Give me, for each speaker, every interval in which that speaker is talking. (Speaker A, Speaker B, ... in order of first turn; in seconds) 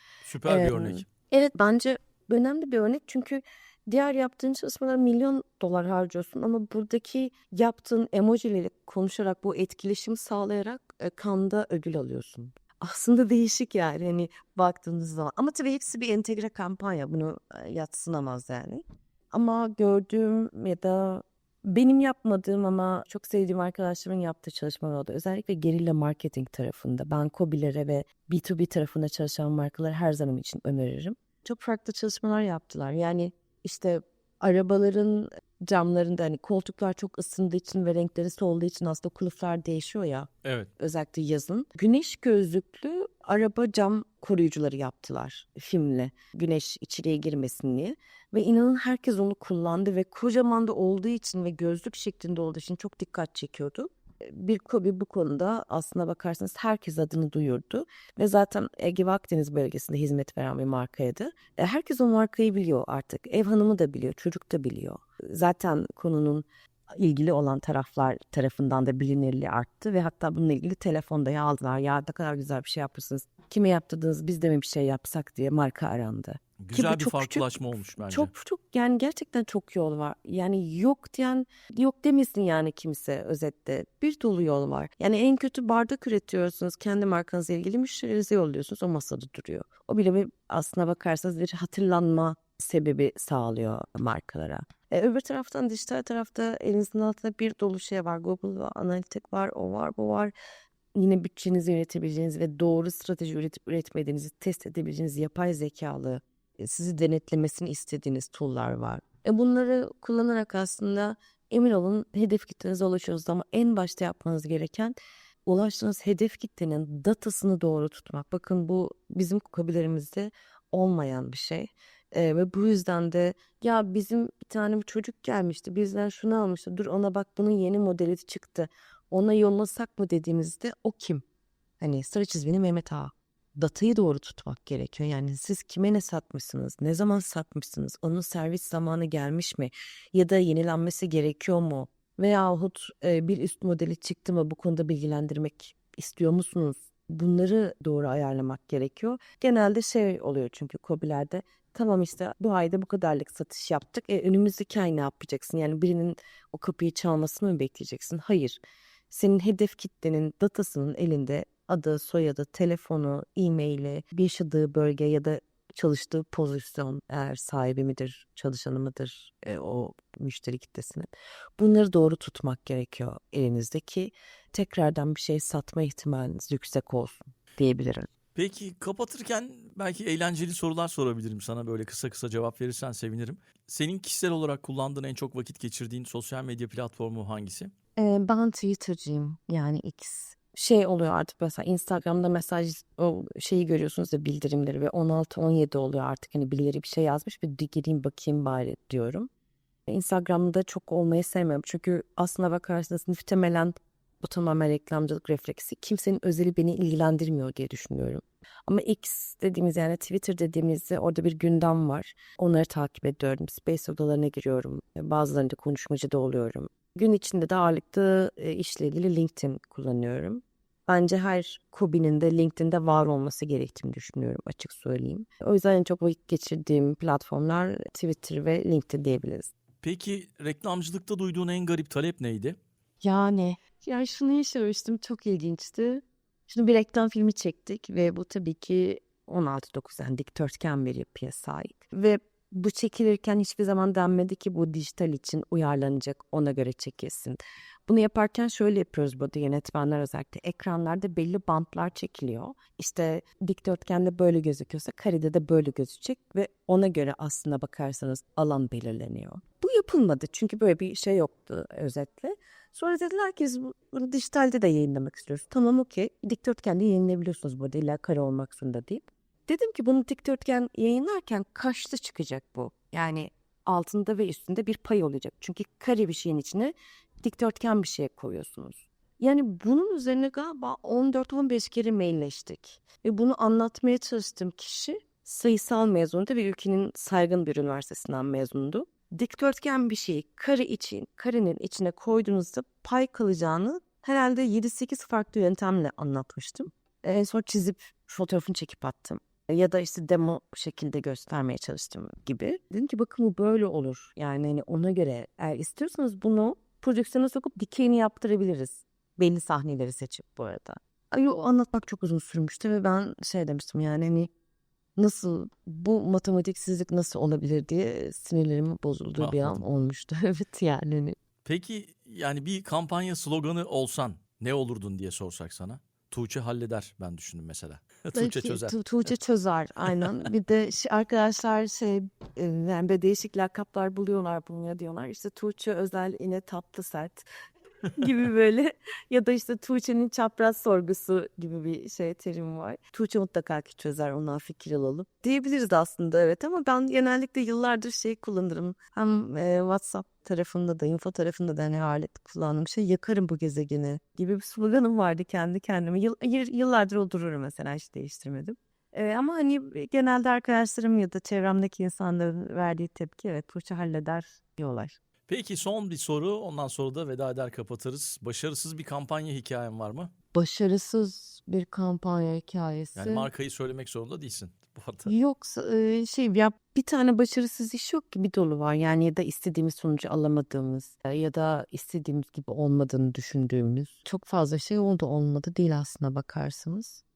Speaker A: 0.2-1.1, 40.4-40.7, 76.6-78.3, 178.3-187.7, 229.8-232.6, 319.2-319.6, 321.4-328.7, 365.3-370.1, 372.9-375.1
Speaker B: 0.5-100.3, 100.9-131.2, 131.8-178.1, 187.9-199.3, 199.9-229.5, 233.0-314.3, 315.0-321.2, 328.1-337.2, 337.9-365.0, 370.3-373.3, 375.1-387.0